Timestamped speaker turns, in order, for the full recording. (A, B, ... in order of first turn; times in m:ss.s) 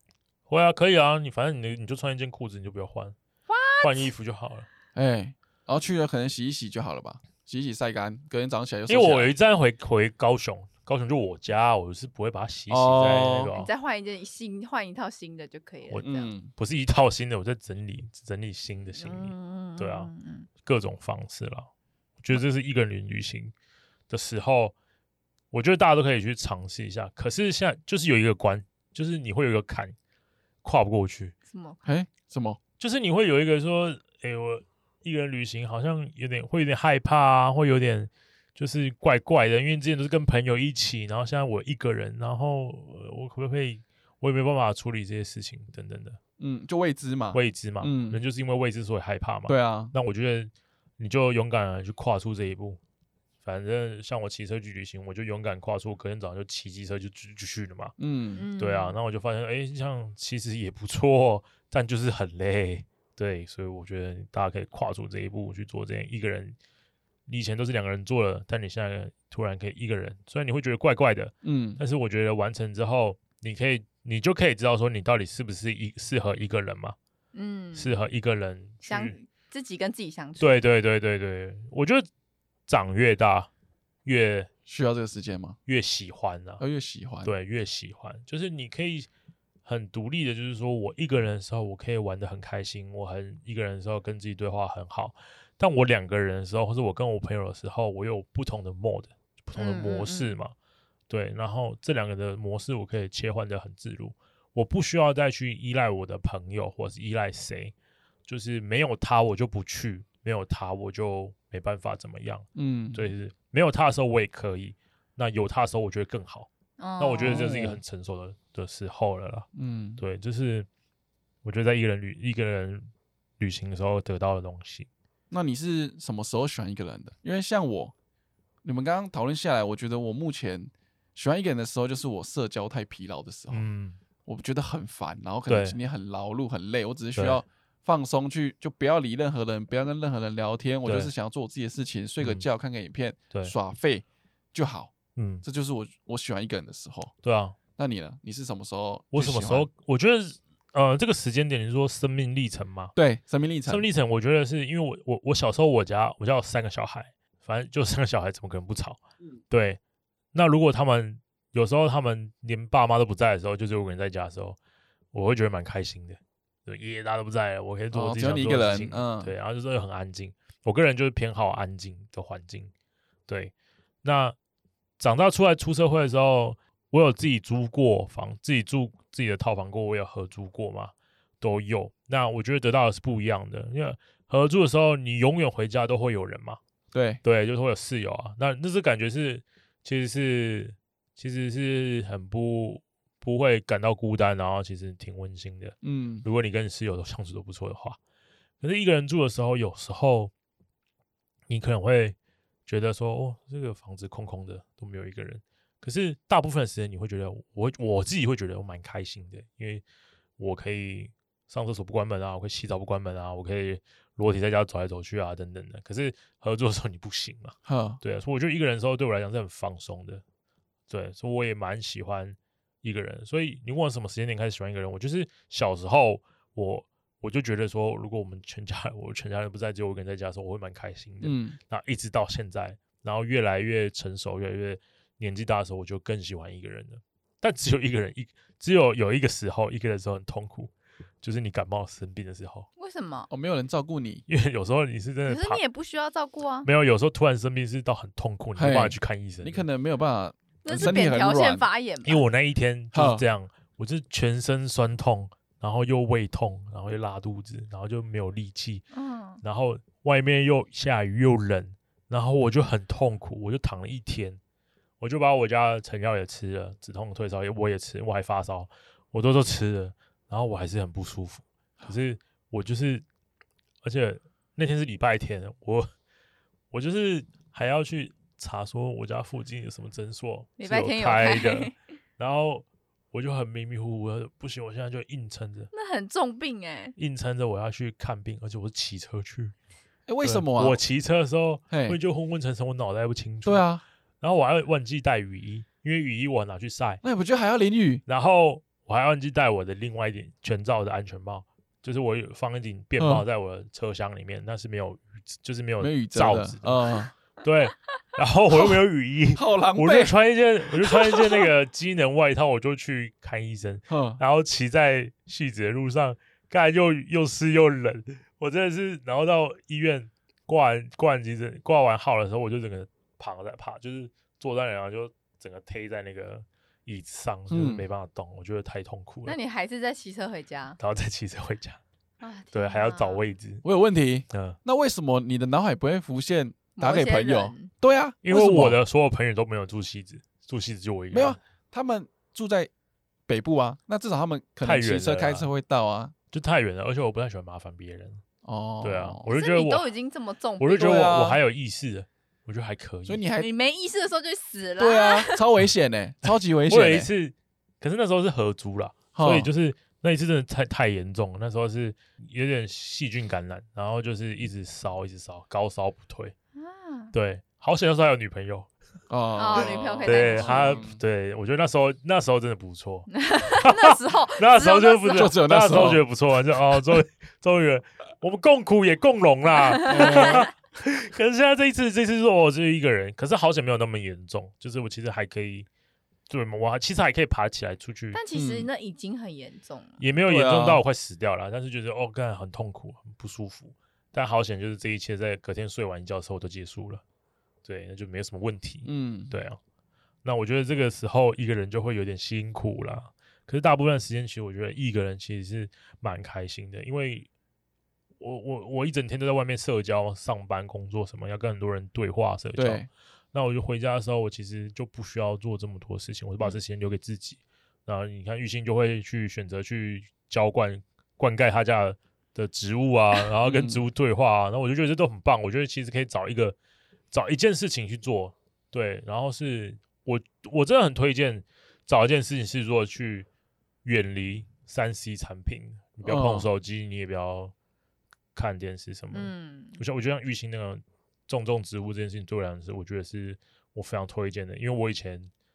0:00.5-0:03.2 A
0:03.5-0:04.1 B
0:03.8-0:04.7 A
0:05.0-0:09.3 C
0:08.9-0:13.7 A
0:12.7-0:13.5 C
0:13.5-0:16.3 B
0:15.9-0:20.1 A
0:16.0-0:16.5 C
0:19.0-0:20.5 B
0:20.6-0:21.7 A
0:22.2-0:23.5 A
0:24.1-0:24.7 A
0:25.5-0:30.0 A
0:30.6-0:31.4 A
0:31.5-0:31.9 B
0:31.8-0:32.6 C
0:32.8-0:46.2 A
0:46.4-0:48.2 C
0:47.3-0:52.8 A
0:49.5-0:49.9 C
0:53.4-0:58.0 A
0:58.0-0:58.4 C
0:58.4-0:59.0 B
0:58.6-1:06.6 A
1:07.3-1:17.0 A
1:11.4-1:11.8 C
1:17.3-1:18.0 B
1:17.8-1:19.2 A
1:18.8-1:20.5 B
1:20.4-1:22.1 A
1:22.7-1:23.5 A
1:24.0-1:24.5 A
1:24.7-1:25.6 C
1:25.7-1:26.6 A
1:26.6-1:27.3 C
1:27.2-1:29.1 A
1:29.6-1:40.5 A
1:39.6-1:40.3 B
1:41.1-1:47.7 A
1:48.3-2:00.7 A
1:52.6-1:53.1 C
1:56.8-1:57.5 B
1:57.2-1:57.8 C
1:59.6-2:00.0 C
2:01.4-2:04.9 A
2:05.3-2:07.9 C
2:08.6-2:13.6 C
2:13.5-2:14.0 A
2:14.3-2:27.1 C
2:15.5-2:15.8 A
2:17.2-2:17.4 A
2:20.8-2:21.1 A
2:22.2-2:22.5 A
2:25.2-2:25.4 A
2:27.2-2:27.6 A
2:27.8-2:29.7 C
2:29.1-2:33.0 A
2:33.0-2:33.9 C
2:33.7-2:39.0 A
2:39.5-2:39.8 A
2:40.3-2:44.6 A
2:45.1-2:52.7 A
2:47.9-2:49.3 C
2:53.3-2:54.4 A
2:55.0-3:06.6 A
3:06.9-3:07.2 C
3:07.2-3:18.0 A
3:15.8-3:16.3 C
3:18.6-3:20.3 A
3:21.5-3:22.2 A
3:22.7-3:29.8 A
3:30.4-3:40.2 A
3:37.7-3:38.0 C
3:40.9-4:02.7 A
3:51.2-3:51.6 C
4:02.8-4:03.3 B
4:03.3-4:04.2 C
4:04.3-4:05.6 A
4:05.3-4:06.7 B
4:06.6-4:09.6 A
4:08.6-4:11.7 C
4:10.6-4:12.2 B
4:12.0-4:18.8 A
4:12.9-4:13.2 C
4:18.9-4:19.4 B
4:19.4-4:24.4 A
4:25.0-4:33.0 A
4:33.8-4:35.9 A
4:36.7-4:45.7 A
4:40.6-4:41.8 B
4:45.7-4:47.0 B
4:47.0-4:49.5 A
4:50.1-4:50.8 C
4:50.2-4:53.7 A
4:51.7-4:52.0 C
4:53.4-4:53.8 C
4:54.2-4:57.0 A
4:57.0-4:58.0 C
4:58.1-5:29.4 A
5:03.0-5:03.2 C
5:05.8-5:07.1 C
5:09.3-5:10.2 C
5:13.9-5:14.2 C
5:27.5-5:27.8 C
5:29.3-5:30.8 B
5:30.8-5:31.8 A
5:32.2-5:33.2 B
5:32.5-5:33.6 A
5:33.6-5:38.8 C
5:34.3-5:34.6 A
5:36.8-5:37.7 B
5:38.2-5:41.4 A
5:41.1-5:42.7 C
5:43.3-5:46.1 C
5:44.6-5:45.5 A
5:46.3-5:48.2 A
5:48.4-5:49.2 C
5:48.8-5:49.9 A
5:49.3-5:51.0 B
5:50.6-5:53.2 A
5:50.7-5:51.4 C
5:53.1-5:53.5 C
5:53.4-5:55.4 B
5:54.8-5:57.1 C
5:56.7-6:06.3 A
5:59.1-5:59.5 C
6:06.6-6:07.1 B
6:07.1-6:08.7 A
6:09.1-6:11.0 C
6:09.4-6:10.8 B
6:10.0-6:25.7 A
6:13.1-6:15.4 B
6:15.2-6:16.0 C
6:19.7-6:20.5 B
6:19.9-6:20.5 C
6:26.3-6:28.2 A
6:28.1-6:30.0 B
6:28.3-6:28.7 C
6:30.0-6:37.0 A
6:30.3-6:30.8 C
6:37.6-6:39.6 A
6:38.8-6:39.3 C
6:40.2-6:47.3 A
6:48.2-7:06.6 A
6:52.6-6:52.9 C
7:03.4-7:03.8 C
7:07.1-7:13.3 A
7:13.8-7:17.5 A
7:16.0-7:16.5 C
7:18.4-7:25.3 A
7:19.1-7:19.8 B